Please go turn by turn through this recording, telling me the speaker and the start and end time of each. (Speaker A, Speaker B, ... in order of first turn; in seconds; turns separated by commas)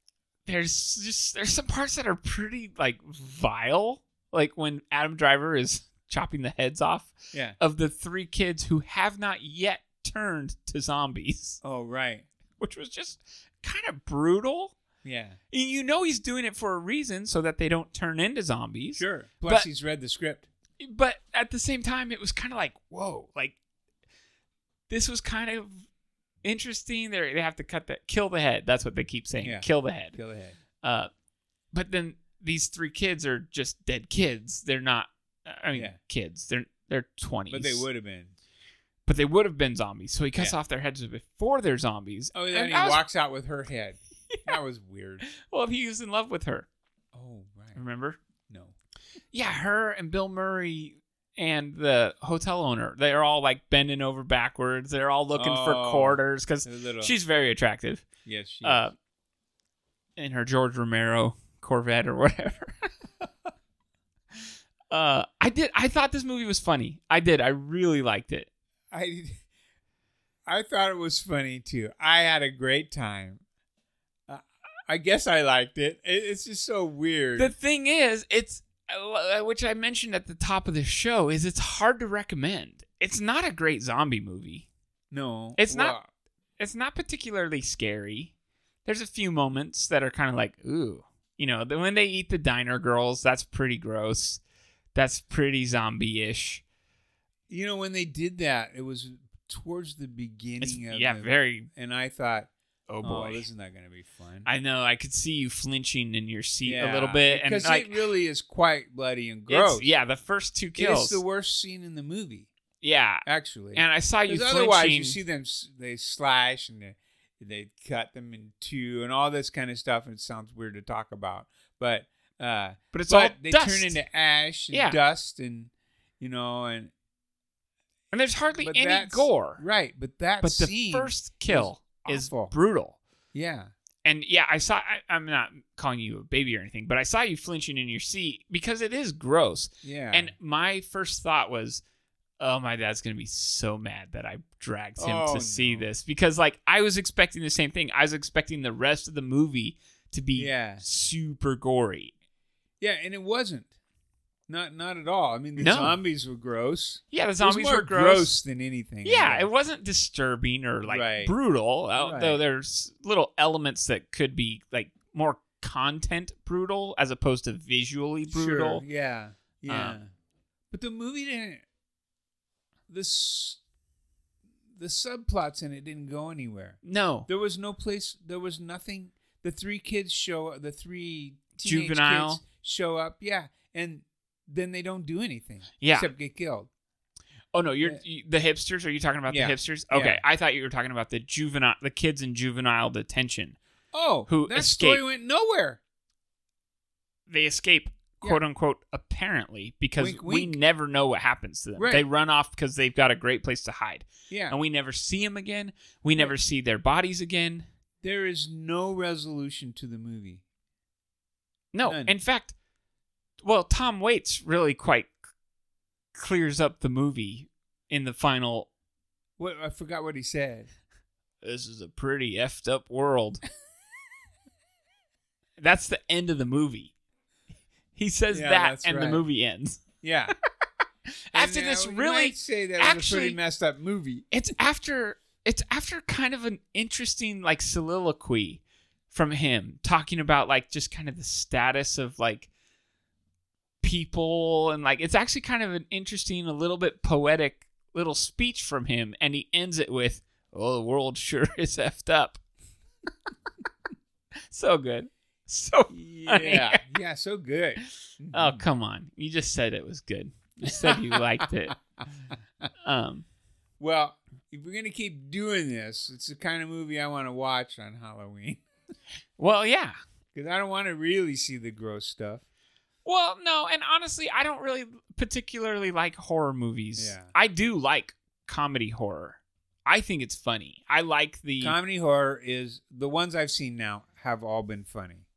Speaker A: 0.5-11.6, Speaker B: 11.6-12.3, Speaker A: 12.6-14.7, Speaker B: 15.0-15.4, Speaker A: 15.5-19.7, Speaker B: 19.0-20.5, Speaker A: 20.8-23.6, Speaker A: 24.9-25.8, Speaker A: 26.4-30.2, Speaker B: 29.4-30.6, Speaker A: 30.8-31.1, Speaker A: 31.7-37.9, Speaker B: 35.7-36.0, Speaker B: 37.5-38.4, Speaker A: 39.0-43.0, Speaker B: 42.3-45.2, Speaker A: 45.3-46.7, Speaker B: 47.1-47.8, Speaker A: 47.7-48.2, Speaker B: 48.5-48.7, Speaker A: 49.3-58.0, Speaker B: 55.3-57.2, Speaker B: 58.2-58.9, Speaker A: 58.6-58.9, Speaker A: 60.2-62.7, Speaker A: 64.9-68.5, Speaker B: 68.9-69.4, Speaker B: 70.5-73.4, Speaker B: 74.3-77.5, Speaker A: 77.4-84.7, Speaker B: 85.1-86.1, Speaker A: 85.6-86.0, Speaker A: 86.6-88.3, Speaker A: 88.8-94.4, Speaker A: 94.9-96.6, Speaker B: 97.5-102.5, Speaker A: 100.6-101.7, Speaker A: 102.9-103.5, Speaker B: 103.0-104.5, Speaker A: 104.4-108.1, Speaker B: 106.6-109.9, Speaker A: 109.5-111.2, Speaker B: 110.8-112.5, Speaker A: 112.8-115.2, Speaker B: 113.2-126.9, Speaker A: 122.9-124.0, Speaker A: 124.7-125.0, Speaker A: 128.1-129.6, Speaker B: 128.6-132.5, Speaker A: 130.4-133.0, Speaker B: 133.3-133.7, Speaker A: 134.0-141.8, Speaker B: 139.8-140.3, Speaker A: 142.4-152.1, Speaker B: 145.0-145.9, Speaker B: 150.3-150.8, Speaker B: 152.8-153.7, Speaker B: 154.5-159.5, Speaker A: 155.6-156.0, Speaker A: 157.1-158.3, Speaker A: 159.0-168.8, Speaker B: 160.8-161.3, Speaker B: 162.0-162.4, Speaker B: 168.3-170.1, Speaker A: 169.7-170.0, Speaker B: 170.7-171.6, Speaker B: 172.9-173.6, Speaker B: 174.7-186.7, Speaker A: 176.8-177.3, Speaker A: 181.6-182.4, Speaker A: 185.8-186.1, Speaker A: 187.5-193.6, Speaker B: 189.3-190.2, Speaker B: 193.9-195.8, Speaker A: 194.3-195.0, Speaker A: 197.3-207.7, Speaker B: 200.0-200.6, Speaker B: 201.8-202.1, Speaker B: 204.3-204.6, Speaker B: 208.0-210.4, Speaker A: 211.7-212.5, Speaker B: 211.8-212.1, Speaker A: 213.4-215.1, Speaker A: 216.1-218.7, Speaker B: 219.4-220.7, Speaker A: 221.4-223.4, Speaker A: 225.6-226.9, Speaker A: 227.9-229.8, Speaker B: 228.3-229.2, Speaker B: 230.0-230.3, Speaker A: 231.1-233.4, Speaker B: 231.3-234.3, Speaker A: 234.3-242.5, Speaker A: 243.8-252.4, Speaker A: 254.5-256.8, Speaker B: 255.9-258.6, Speaker A: 258.3-261.8, Speaker B: 260.6-261.7, Speaker A: 262.8-263.2, Speaker B: 263.8-268.6, Speaker A: 269.4-270.0, Speaker B: 270.3-272.4, Speaker A: 273.0-281.8, Speaker B: 276.9-277.3, Speaker B: 281.6-285.2